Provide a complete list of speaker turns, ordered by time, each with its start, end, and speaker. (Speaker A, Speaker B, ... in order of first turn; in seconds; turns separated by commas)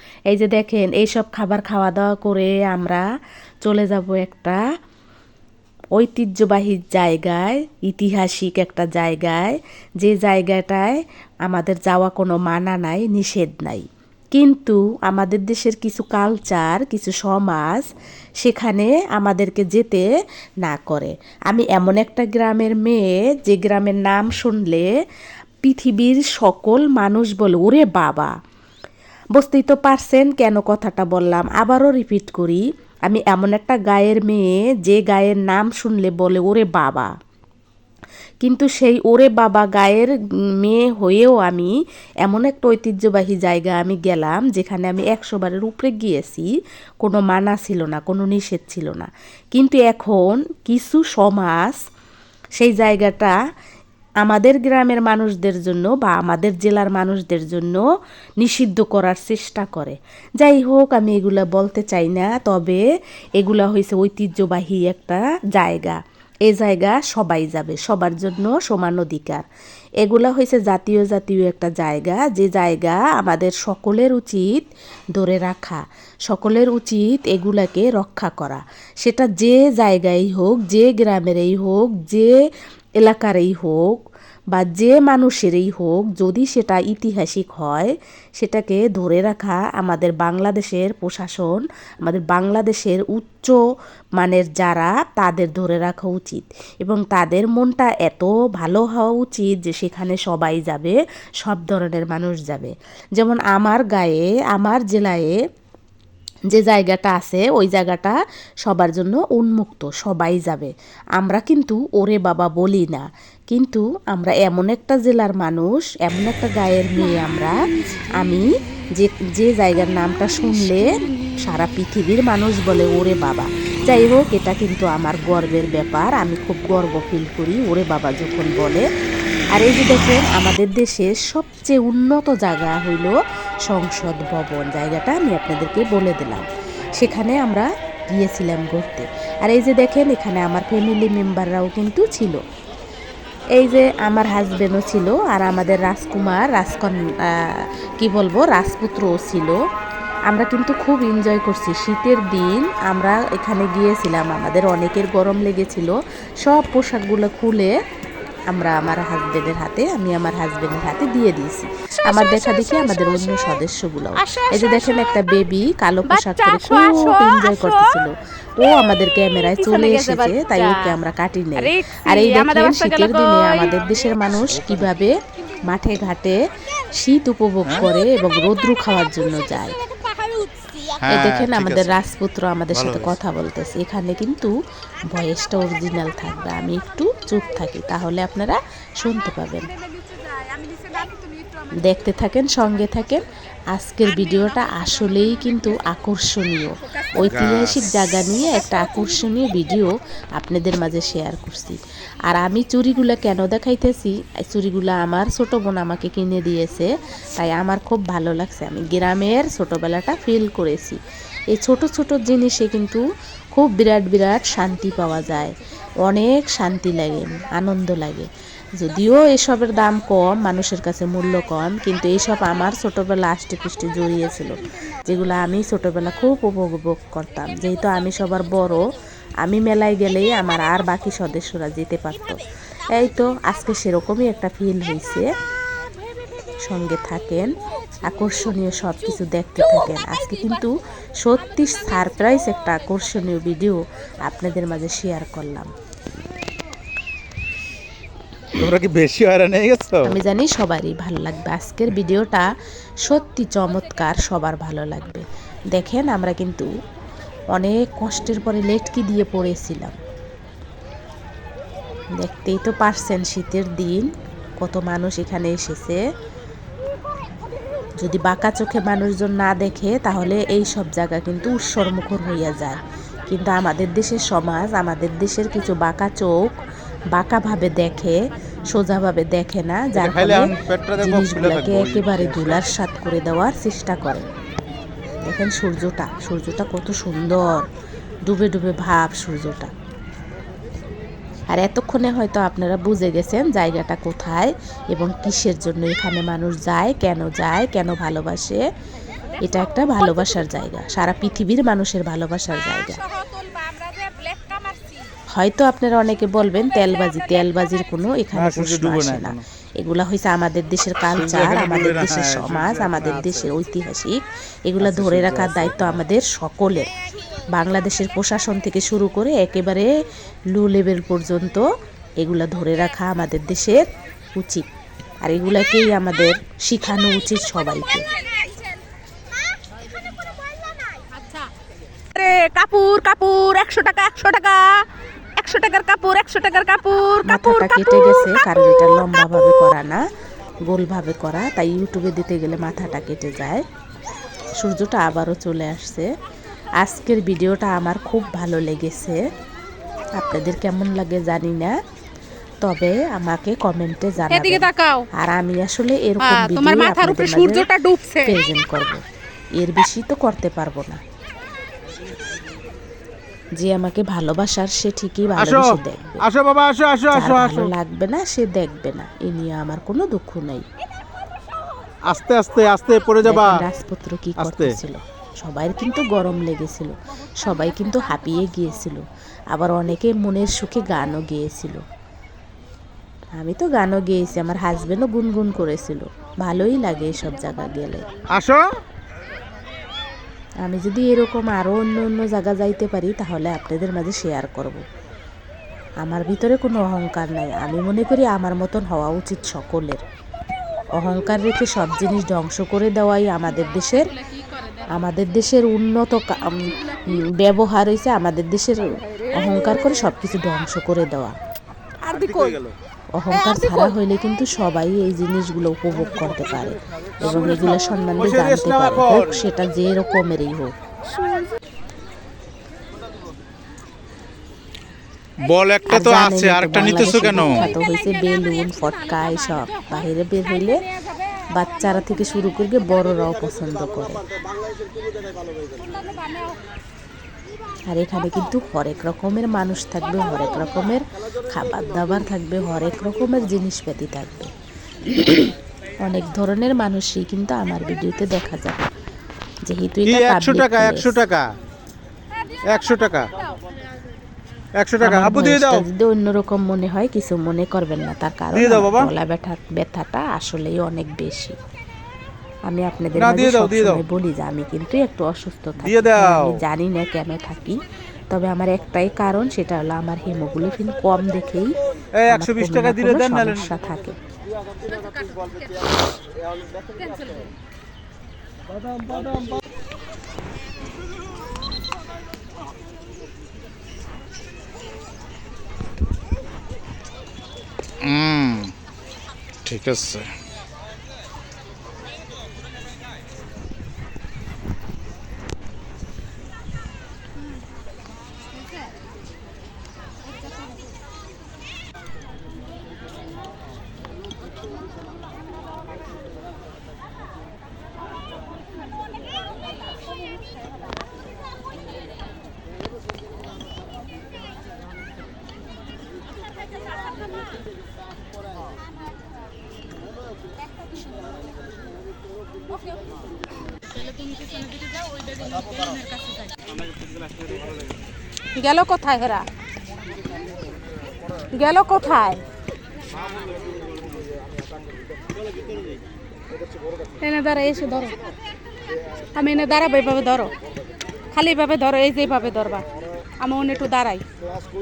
Speaker A: 0.3-3.0, Speaker A: 3.6-4.6, Speaker A: 6.0-17.9, Speaker A: 18.4-20.0, Speaker A: 20.6-24.9, Speaker A: 25.6-28.3, Speaker A: 29.3-37.1, Speaker A: 38.4-41.7, Speaker A: 42.2-46.5, Speaker A: 47.0-51.8, Speaker A: 52.6-53.3, Speaker A: 54.2-57.8, Speaker A: 58.4-62.8, Speaker A: 63.4-69.4, Speaker A: 70.0-82.3, Speaker A: 83.0-83.9, Speaker A: 84.5-93.6, Speaker A: 94.2-105.4, Speaker A: 106.5-128.9, Speaker B: 120.7-121.4, Speaker A: 129.5-133.2, Speaker A: 133.7-136.4, Speaker A: 137.0-142.4, Speaker A: 143.5-149.6, Speaker A: 150.3-157.7, Speaker A: 158.5-179.8, Speaker B: 162.1-162.9, Speaker B: 164.2-165.2, Speaker B: 166.1-167.9, Speaker B: 169.5-170.9, Speaker B: 171.6-173.8, Speaker C: 174.2-174.9, Speaker B: 179.8-181.0, Speaker C: 181.0-182.1, Speaker A: 181.1-184.5, Speaker C: 182.7-183.2, Speaker A: 185.1-189.7, Speaker B: 189.7-191.9, Speaker A: 191.8-211.0, Speaker B: 194.3-194.9, Speaker C: 197.1-197.9, Speaker B: 197.2-197.6, Speaker A: 211.5-213.0, Speaker A: 213.5-218.3, Speaker A: 218.8-228.8, Speaker A: 229.4-235.3, Speaker A: 236.7-245.7, Speaker C: 248.5-250.2, Speaker A: 250.0-256.7, Speaker A: 257.5-259.9, Speaker A: 262.2-266.0, Speaker A: 268.0-284.3, Speaker C: 279.9-282.7, Speaker A: 285.2-287.7, Speaker A: 288.2-289.7, Speaker A: 291.5-298.6, Speaker A: 299.4-303.0, Speaker B: 303.0-305.1, Speaker A: 305.3-316.9, Speaker C: 308.3-309.4, Speaker C: 311.1-313.5, Speaker C: 314.8-316.0, Speaker A: 317.5-319.9, Speaker A: 320.5-321.7, Speaker A: 322.2-324.7, Speaker A: 325.2-328.1, Speaker B: 328.0-328.8, Speaker B: 330.8-331.5, Speaker B: 332.1-339.7, Speaker A: 337.2-340.0, Speaker A: 340.7-343.6, Speaker A: 344.6-346.1, Speaker A: 346.8-349.2, Speaker A: 350.1-351.7, Speaker A: 352.6-357.7, Speaker B: 354.2-355.1, Speaker B: 356.2-358.4, Speaker A: 358.2-359.0, Speaker A: 359.6-361.0, Speaker A: 363.6-366.2, Speaker C: 365.4-367.7, Speaker A: 367.1-370.6, Speaker C: 372.1-373.5, Speaker A: 373.2-381.8, Speaker C: 374.4-374.8, Speaker B: 377.6-378.2, Speaker A: 383.3-388.1, Speaker C: 388.3-388.7, Speaker A: 390.6-394.8, Speaker A: 396.0-400.0, Speaker A: 401.0-404.1, Speaker B: 403.5-405.0, Speaker A: 404.9-411.3, Speaker B: 406.4-407.2, Speaker B: 409.1-410.1, Speaker B: 412.0-412.6, Speaker C: 412.1-412.7, Speaker A: 413.1-420.7, Speaker B: 413.4-413.8, Speaker C: 417.2-419.5, Speaker B: 421.1-421.5, Speaker C: 425.4-427.7, Speaker A: 425.9-430.9, Speaker B: 428.2-430.1, Speaker B: 430.6-431.6, Speaker A: 431.5-434.2, Speaker B: 435.7-436.6, Speaker A: 437.9-444.5, Speaker A: 446.0-448.8, Speaker A: 449.6-451.2, Speaker C: 450.0-451.5, Speaker C: 452.7-453.3, Speaker C: 454.8-455.8, Speaker A: 455.0-461.6, Speaker C: 458.5-459.1, Speaker A: 462.7-471.8, Speaker C: 463.1-464.0, Speaker C: 465.8-466.6, Speaker C: 472.2-473.7, Speaker A: 472.3-474.1, Speaker B: 474.8-476.2, Speaker B: 476.9-477.5, Speaker C: 488.0-488.7, Speaker C: 489.6-490.3, Speaker B: 524.0-526.5, Speaker B: 528.5-529.5, Speaker B: 531.5-532.4, Speaker B: 537.2-538.2, Speaker B: 539.3-540.5, Speaker B: 541.3-542.9, Speaker B: 543.4-544.2